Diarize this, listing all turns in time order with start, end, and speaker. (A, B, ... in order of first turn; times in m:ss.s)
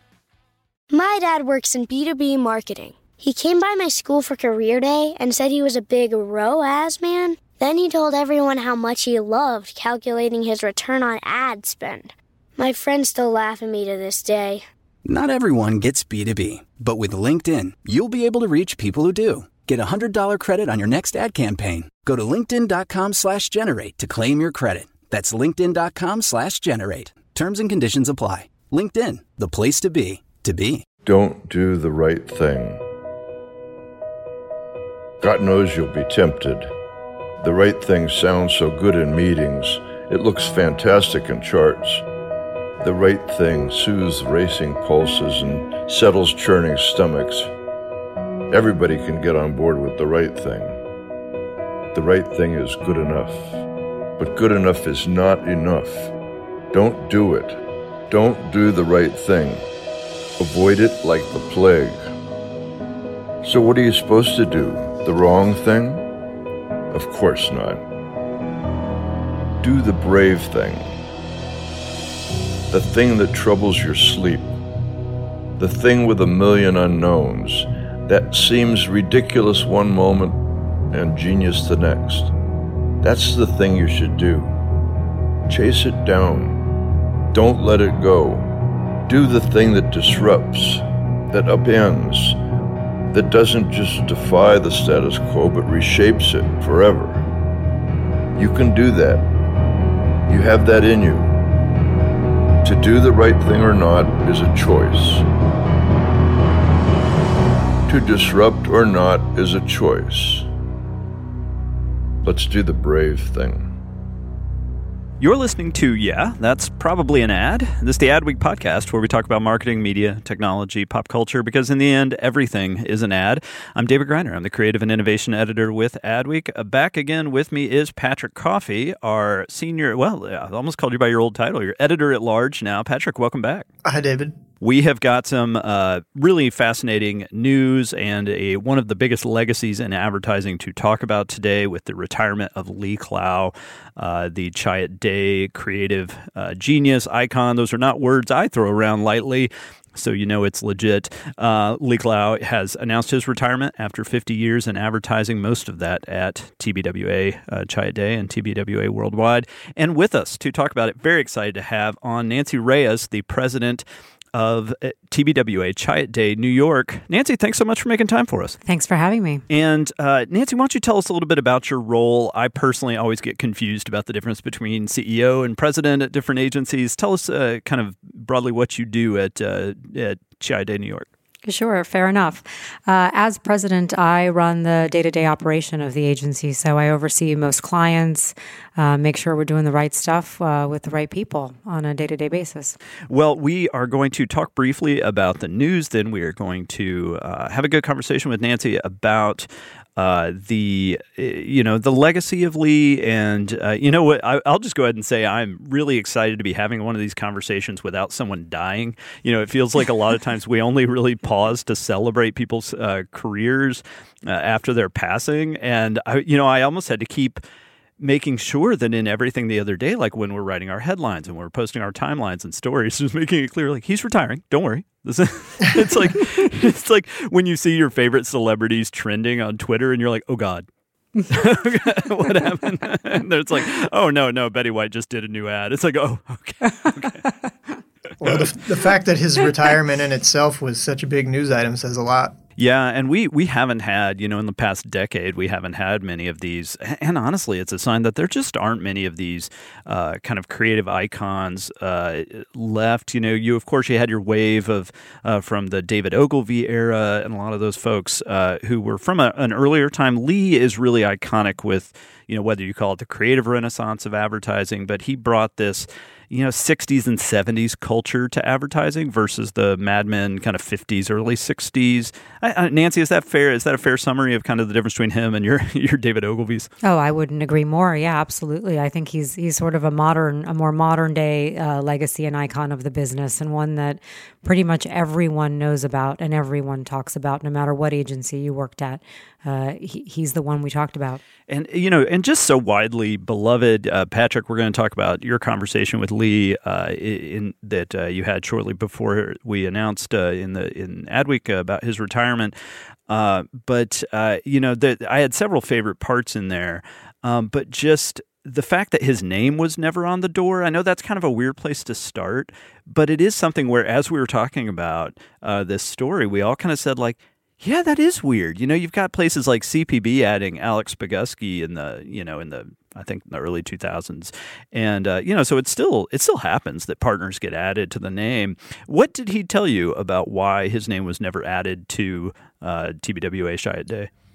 0:00.9-0:14.6 A
0:15.0-0:30.8 B
0:31.0-0:32.8 C
0:35.2-0:36.7 C
0:37.4-0:42.0 C
0:42.8-0:47.5 C
0:48.5-0:50.8 C
0:51.9-0:53.6 C
0:54.2-0:56.1 C
0:56.7-0:59.7 C
1:00.4-1:02.1 C
1:03.4-1:06.1 C
1:06.9-1:07.8 C
1:09.6-1:11.0 C
1:12.7-1:14.5 C
1:15.6-1:22.3 C
1:23.0-1:24.6 C
1:25.5-1:26.7 C
1:27.3-1:28.5 C
1:29.1-1:32.4 C
1:33.1-1:37.2 C
1:38.4-1:39.3 C
1:40.3-1:41.4 C
1:42.6-1:45.3 C
1:47.9-1:50.5 C
1:52.2-1:53.7 C
1:55.2-2:13.7 D
2:13.8-2:14.4 E
2:14.6-2:48.6 D
2:48.7-2:49.4 F
2:49.5-3:01.1 D
3:01.5-3:12.8 F
3:13.1-3:37.4 D
3:38.0-3:50.6 D
3:51.3-3:57.2 D
3:58.2-4:02.4 E
4:02.6-4:36.7 D
4:36.8-4:51.2 F
4:51.5-5:02.5 D
5:03.1-5:34.1 D